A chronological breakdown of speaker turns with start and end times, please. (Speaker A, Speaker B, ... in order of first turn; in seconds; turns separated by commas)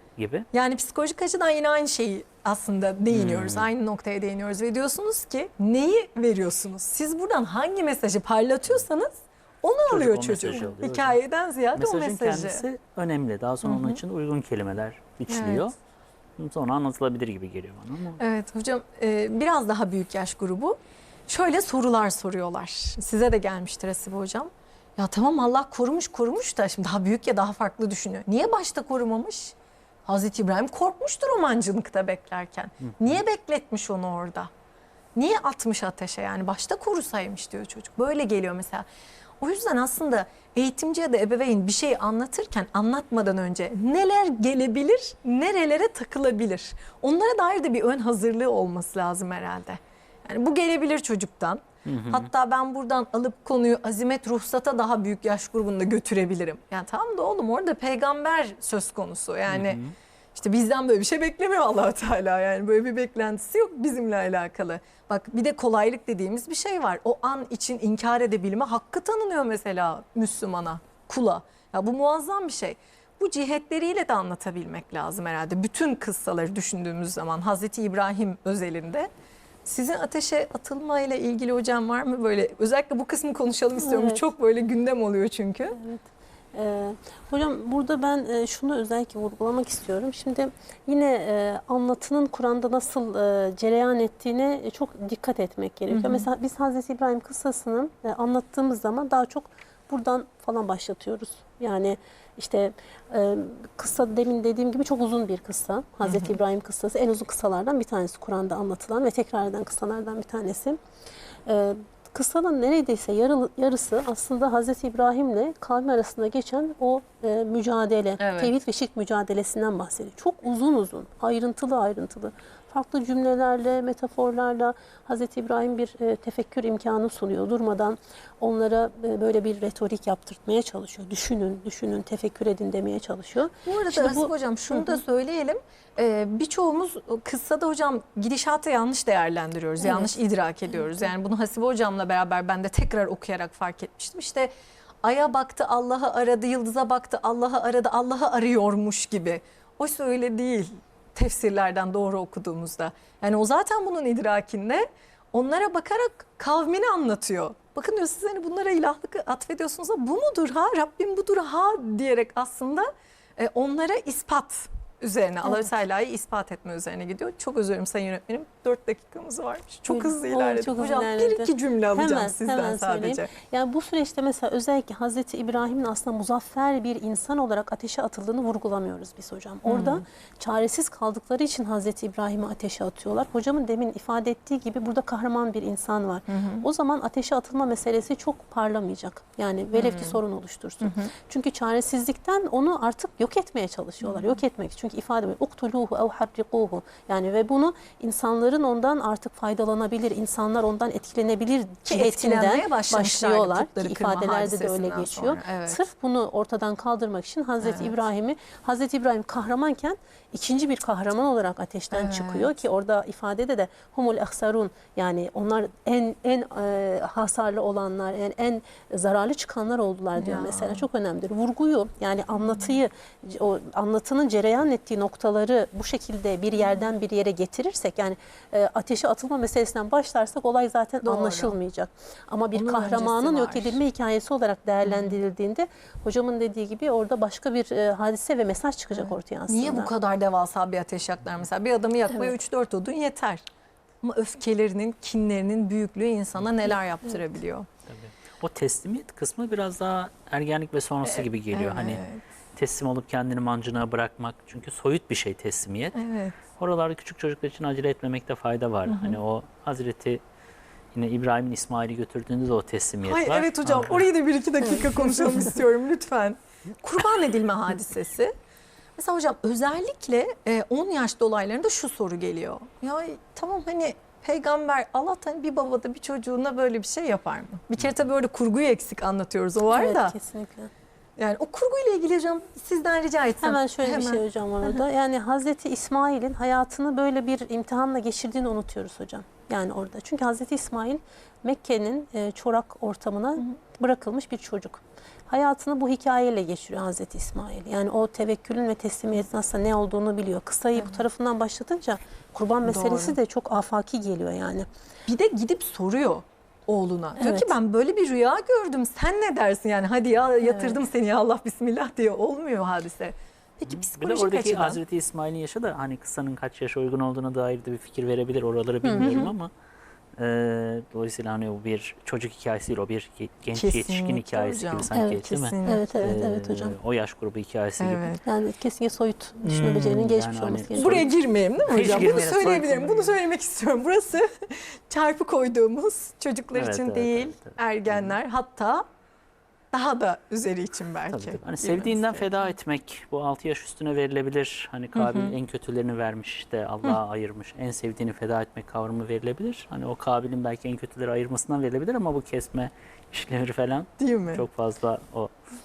Speaker A: 0.2-0.5, Speaker B: 0.5-12.6, Speaker A: 3.1-3.7, Speaker A: 9.9-11.2, Speaker A: 11.7-15.7, Speaker B: 13.6-14.0, Speaker B: 15.3-15.7, Speaker A: 16.4-18.2, Speaker B: 18.2-29.5, Speaker B: 30.1-34.5, Speaker A: 32.9-33.2, Speaker B: 35.1-38.9, Speaker B: 39.4-59.8, Speaker A: 51.8-52.3, Speaker A: 59.5-59.9, Speaker B: 60.3-79.1, Speaker B: 79.6-85.8, Speaker C: 83.8-84.2, Speaker C: 85.7-110.8, Speaker B: 95.9-96.3, Speaker B: 106.0-106.3, Speaker C: 111.5-135.0, Speaker B: 118.2-118.5, Speaker B: 133.7-144.5, Speaker C: 139.8-141.1, Speaker B: 145.0-173.3, Speaker C: 169.9-239.9, Speaker B: 179.7-180.0, Speaker B: 186.3-186.7, Speaker B: 189.7-190.2, Speaker B: 190.8-191.1, Speaker B: 201.8-205.8, Speaker B: 207.6-207.9, Speaker B: 211.9-212.5, Speaker B: 220.2-220.8, Speaker B: 222.3-222.7, Speaker B: 231.0-231.6, Speaker B: 232.5-233.8, Speaker B: 234.8-235.2, Speaker B: 239.0-243.4, Speaker B: 244.0-247.7, Speaker A: 247.9-252.0, Speaker B: 251.0-252.2, Speaker A: 252.6-256.0, Speaker B: 255.9-256.4, Speaker A: 256.6-260.2, Speaker B: 258.9-259.2, Speaker A: 260.9-264.1, Speaker B: 263.0-268.3, Speaker B: 269.0-280.1, Speaker C: 279.7-280.7, Speaker B: 281.2-284.8, Speaker C: 283.4-304.7, Speaker B: 300.8-301.0, Speaker B: 302.6-303.2, Speaker B: 305.1-314.8, Speaker C: 307.2-307.5, Speaker C: 310.4-310.8, Speaker A: 313.7-319.5, Speaker C: 318.8-319.3, Speaker B: 319.0-319.3, Speaker A: 320.2-328.1, Speaker B: 323.5-326.1, Speaker C: 324.9-326.8, Speaker B: 327.8-328.2, Speaker C: 328.2-331.1, Speaker A: 329.4-331.1, Speaker B: 330.7-338.8, Speaker A: 331.6-332.8, Speaker C: 331.8-333.1, Speaker A: 336.5-338.2, Speaker B: 339.7-342.4, Speaker A: 341.1-355.3, Speaker B: 344.9-345.4, Speaker B: 354.0-354.4